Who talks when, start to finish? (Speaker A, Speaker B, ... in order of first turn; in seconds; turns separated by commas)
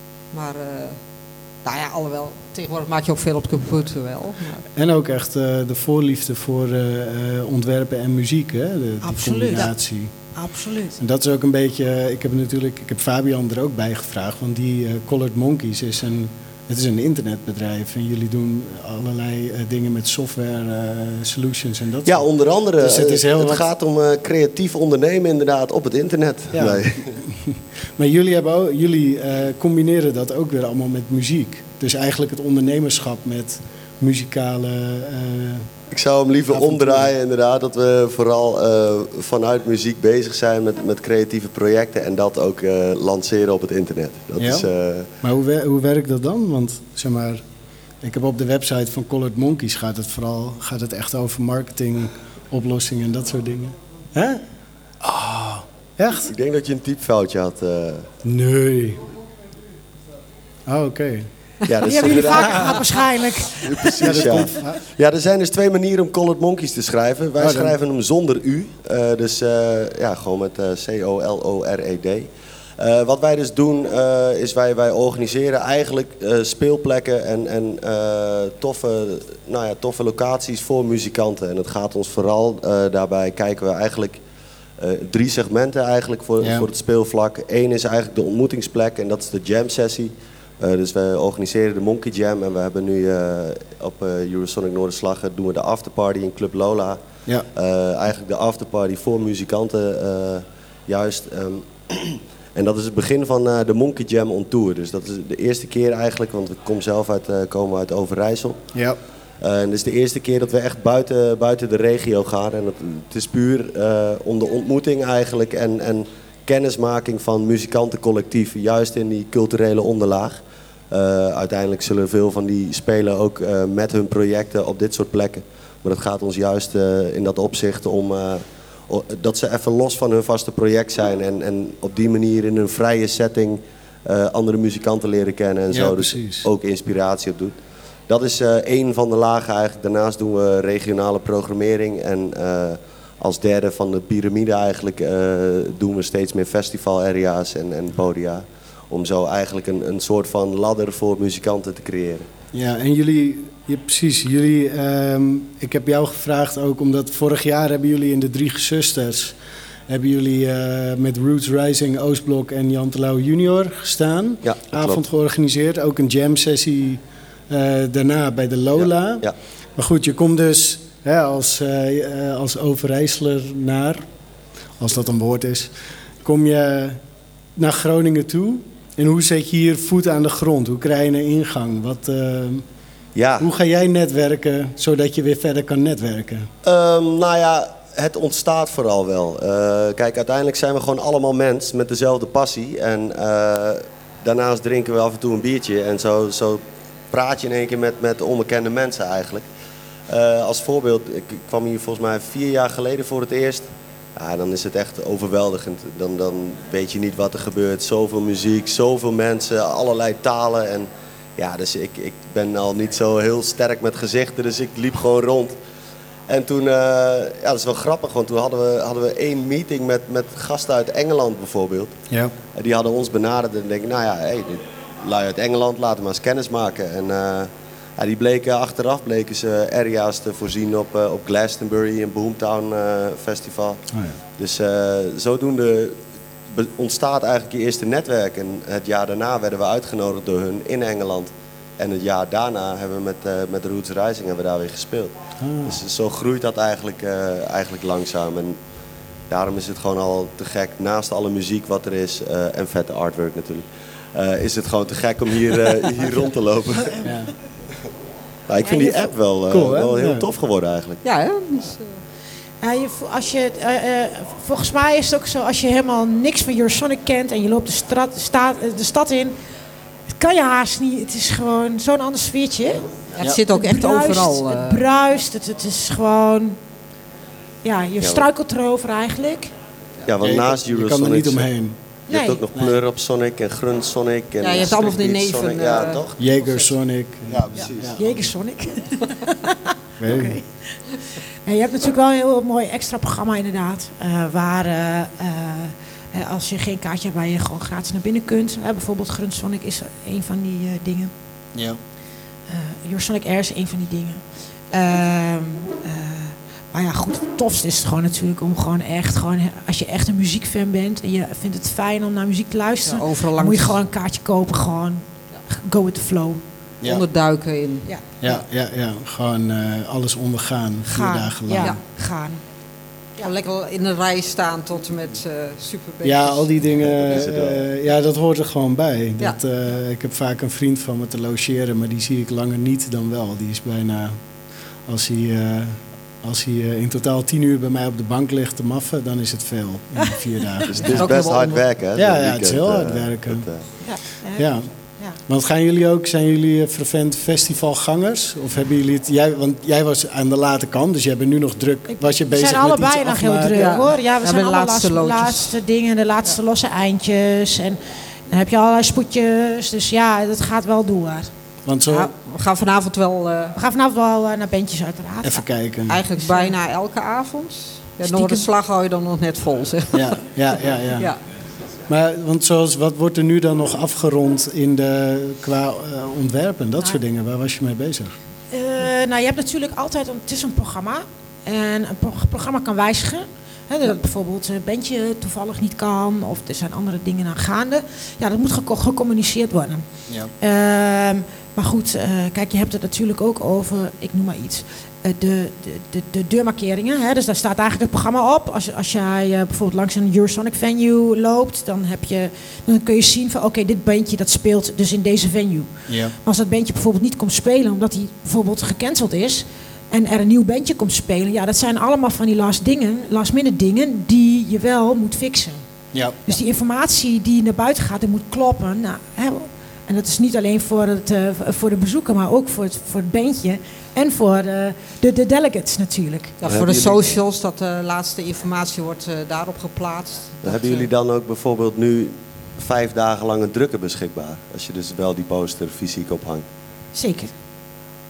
Speaker A: 0.3-1.0, Speaker A: 1.6-4.6, Speaker B: 4.7-10.1, Speaker C: 9.0-9.7, Speaker C: 10.3-11.0, Speaker B: 11.0-23.7, Speaker D: 22.1-27.2, Speaker B: 26.5-35.7, Speaker D: 35.9-45.1, Speaker B: 36.5-37.1, Speaker B: 44.4-44.7, Speaker B: 45.2-47.4, Speaker B: 48.0-54.4, Speaker B: 55.0-56.3, Speaker D: 56.2-58.1, Speaker B: 58.2-59.0, Speaker B: 60.7-61.3, Speaker D: 61.6-63.0, Speaker C: 61.8-64.6, Speaker B: 62.4-62.8, Speaker D: 63.6-84.2, Speaker B: 64.0-64.8, Speaker B: 67.4-67.8, Speaker D: 84.8-97.0, Speaker B: 86.4-86.7, Speaker D: 97.5-108.6, Speaker D: 109.4-120.4, Speaker D: 120.9-137.5, Speaker B: 135.7-136.5, Speaker D: 138.1-152.3, Speaker B: 152.5-159.4, Speaker B: 159.9-174.0, Speaker D: 164.4-165.0, Speaker D: 168.8-169.3, Speaker B: 174.8-175.7, Speaker B: 176.2-177.0, Speaker B: 177.6-182.6, Speaker D: 183.1-183.5, Speaker B: 183.4-186.5, Speaker D: 186.6-199.4, Speaker D: 200.1-215.5, Speaker D: 216.3-221.9, Speaker D: 222.5-233.8, Speaker B: 233.9-234.2, Speaker D: 234.4-248.6, Speaker B: 245.4-245.8, Speaker D: 249.3-257.1, Speaker B: 257.0-257.3, Speaker D: 258.5-261.0, Speaker C: 258.6-259.1, Speaker B: 259.5-260.2, Speaker A: 261.0-262.0, Speaker C: 262.6-269.3, Speaker C: 270.1-272.9, Speaker A: 273.2-274.8, Speaker C: 273.5-276.6, Speaker C: 277.6-279.5, Speaker D: 278.0-278.2, Speaker D: 280.0-281.4, Speaker B: 280.2-281.8, Speaker C: 282.1-282.4, Speaker D: 282.1-286.2, Speaker A: 284.4-286.7, Speaker B: 286.2-288.0, Speaker D: 287.3-288.1, Speaker C: 287.9-290.8, Speaker B: 290.0-290.4, Speaker C: 291.4-301.1, Speaker B: 301.5-301.8, Speaker C: 302.5-316.4, Speaker A: 312.9-313.8, Speaker A: 316.8-318.4, Speaker B: 318.2-321.8, Speaker C: 320.8-322.4, Speaker A: 323.2-326.6, Speaker B: 326.0-334.2, Speaker D: 326.8-327.6, Speaker B: 334.8-341.1, Speaker D: 340.7-343.6, Speaker A: 340.8-341.6, Speaker B: 342.0-343.4, Speaker C: 343.8-345.2, Speaker B: 344.4-344.7, Speaker B: 345.3-353.7, Speaker C: 352.2-361.3, Speaker A: 353.5-355.6, Speaker B: 361.6-362.1, Speaker A: 361.9-363.6, Speaker C: 363.6-365.4, Speaker B: 365.2-366.0, Speaker A: 365.9-370.4, Speaker C: 366.2-366.5, Speaker C: 368.0-368.4, Speaker B: 369.9-371.1, Speaker B: 371.9-378.1, Speaker C: 378.5-389.9, Speaker C: 390.4-415.6, Speaker B: 405.9-406.1, Speaker C: 416.2-426.4, Speaker A: 426.4-430.9, Speaker D: 426.4-427.2, Speaker D: 430.4-436.4, Speaker C: 436.9-437.3